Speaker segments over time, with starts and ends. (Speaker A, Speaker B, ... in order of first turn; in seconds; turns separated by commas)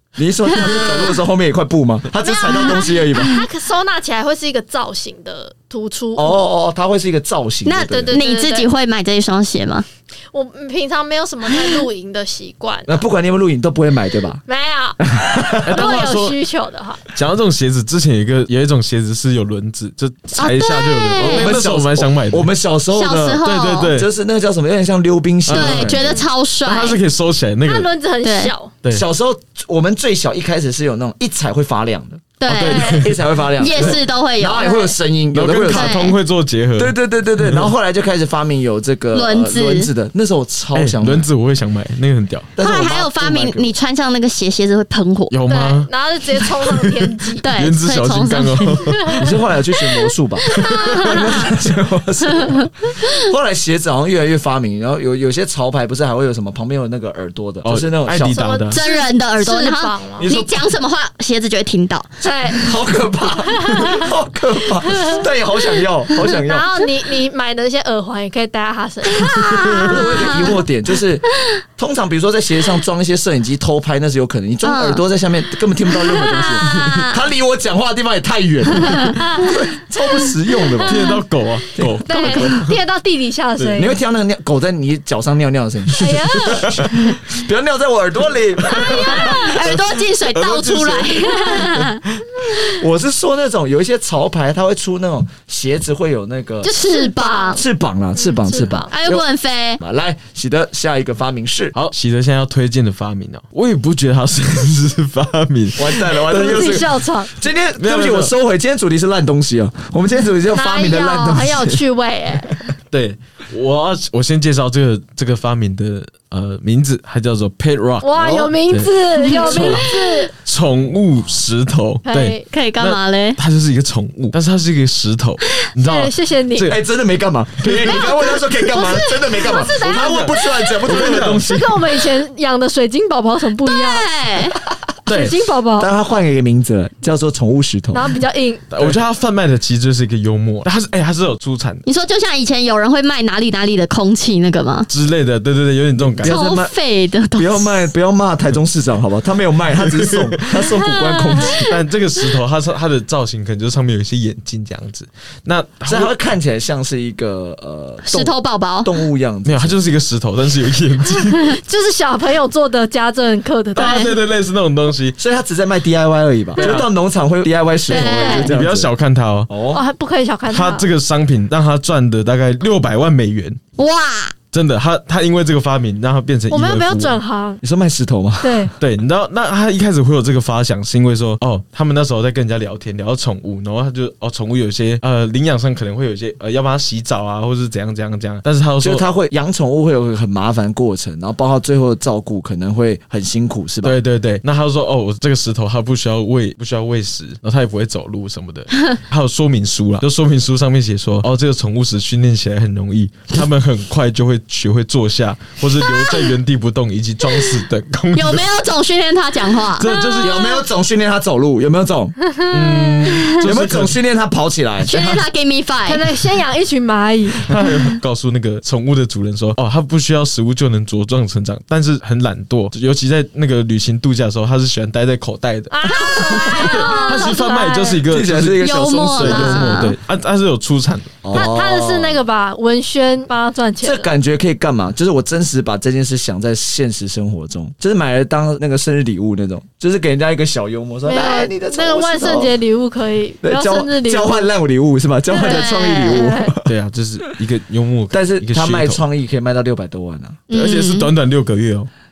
Speaker A: 0.1-3.4, Speaker B: 0.7-1.0, Speaker B: 2.2-6.4, Speaker A: 6.2-8.2, Speaker C: 7.6-9.8, Speaker B: 8.0-8.7, Speaker B: 10.3-13.0, Speaker C: 11.6-11.8, Speaker A: 12.8-14.4, Speaker B: 14.4-15.0, Speaker A: 15.0-15.8, Speaker D: 15.6-16.4, Speaker B: 15.7-17.0, Speaker D: 17.1-22.5, Speaker C: 20.3-21.5, Speaker A: 21.2-23.4, Speaker C: 22.9-23.9, Speaker D: 23.4-24.1, Speaker A: 23.9-26.1, Speaker D: 25.4-26.1, Speaker C: 25.5-27.0, Speaker D: 26.6-27.9, Speaker B: 27.6-28.7, Speaker C: 28.2-28.5, Speaker A: 28.9-36.0, Speaker C: 32.4-34.9, Speaker D: 32.5-33.2, Speaker B: 32.7-33.0, Speaker D: 33.7-34.0, Speaker D: 35.3-37.7, Speaker C: 35.7-36.1, Speaker A: 36.8-41.3, Speaker C: 39.1-39.9, Speaker D: 40.7-42.5, Speaker A: 42.5-43.8, Speaker C: 42.6-45.3, Speaker D: 45.3-49.3, Speaker B: 45.5-47.5, Speaker C: 47.4-49.0, Speaker B: 48.9-49.3, Speaker A: 49.2-58.5, Speaker C: 50.4-51.5, Speaker D: 57.6-58.8, Speaker B: 58.2-60.3, Speaker C: 58.7-62.1, Speaker A: 60.2-60.6, Speaker B: 62.2-62.7, Speaker A: 62.2-66.7, Speaker B: 63.4-64.1, Speaker B: 66.4-70.6, Speaker C: 69.1-70.6, Speaker A: 69.8-71.2, Speaker A: 71.8-81.2, Speaker C: 74.6-75.0, Speaker C: 76.0-77.2, Speaker B: 76.6-77.0, Speaker B: 80.8-81.2, Speaker D: 80.8-82.7, Speaker A: 81.7-82.5, Speaker B: 82.0-84.0, Speaker D: 83.5-83.8, Speaker A: 83.8-89.5, Speaker B: 86.0-87.2, Speaker B: 88.7-89.7, Speaker C: 89.2-92.0, Speaker D: 89.6-92.4, Speaker A: 92.8-96.7, Speaker C: 96.6-97.6, Speaker B: 96.6-97.6, Speaker A: 97.5-99.2, Speaker B: 98.2-98.9, Speaker C: 98.9-99.8, Speaker A: 99.8-101.7, Speaker D: 101.7-106.0, Speaker A: 105.8-111.8, Speaker B: 106.2-107.3, Speaker D: 107.8-108.3, Speaker B: 110.5-112.6, Speaker D: 112.9-118.1, Speaker B: 118.0-120.3, Speaker A: 118.2-118.5, Speaker D: 118.7-119.8, Speaker A: 119.3-119.8, Speaker D: 120.4-126.8, Speaker B: 122.0-122.4, Speaker C: 122.5-123.4, Speaker B: 125.8-126.7, Speaker A: 126.6-131.8, Speaker D: 127.6-128.0, Speaker B: 127.8-134.1, Speaker D: 129.6-131.5, Speaker C: 133.6-134.6, Speaker D: 135.1-135.3, Speaker B: 135.1-135.9, Speaker A: 135.8-138.1, Speaker B: 137.9-138.7, Speaker D: 138.7-141.8, Speaker C: 141.8-144.9, Speaker D: 144.9-146.4, Speaker A: 146.2-146.7, Speaker C: 146.2-147.9, Speaker A: 147.3-151.7, Speaker D: 151.6-156.1, Speaker A: 155.9-159.8, Speaker C: 158.0-158.9, Speaker D: 159.4-161.6, Speaker B: 161.3-164.2, Speaker D: 163.7-165.2, Speaker A: 165.2-168.9, Speaker D: 166.6-166.8, Speaker B: 167.9-168.5, Speaker C: 167.9-168.5, Speaker D: 168.4-169.5, Speaker A: 169.5-169.8, Speaker B: 169.7-170.9, Speaker D: 170.5-173.6, Speaker C: 173.8-174.3, Speaker D: 174.5-177.2, Speaker B: 176.5-177.6, Speaker A: 177.6-178.7, Speaker B: 178.4-178.7, Speaker D: 178.8-189.0, Speaker A: 188.8-194.0, Speaker D: 193.8-208.7, Speaker C: 205.9-206.3, Speaker C: 207.3-207.6, Speaker C: 208.1-210.4, Speaker D: 209.7-210.5, Speaker A: 210.2-212.1, Speaker D: 212.5-214.0, Speaker A: 213.4-215.2, Speaker C: 214.8-216.0, Speaker B: 215.9-217.5, Speaker D: 217.5-231.5, Speaker B: 225.7-228.0, Speaker A: 225.8-226.8, Speaker A: 228.1-229.8, Speaker C: 228.6-229.9, Speaker A: 231.2-232.2, Speaker B: 231.3-234.1, Speaker A: 233.8-242.5, Speaker B: 241.0-244.5, Speaker A: 243.4-246.7, Speaker C: 245.3-246.3, Speaker B: 245.3-246.5, Speaker D: 246.7-249.0, Speaker A: 248.1-250.4, Speaker C: 250.5-251.1, Speaker D: 250.5-251.9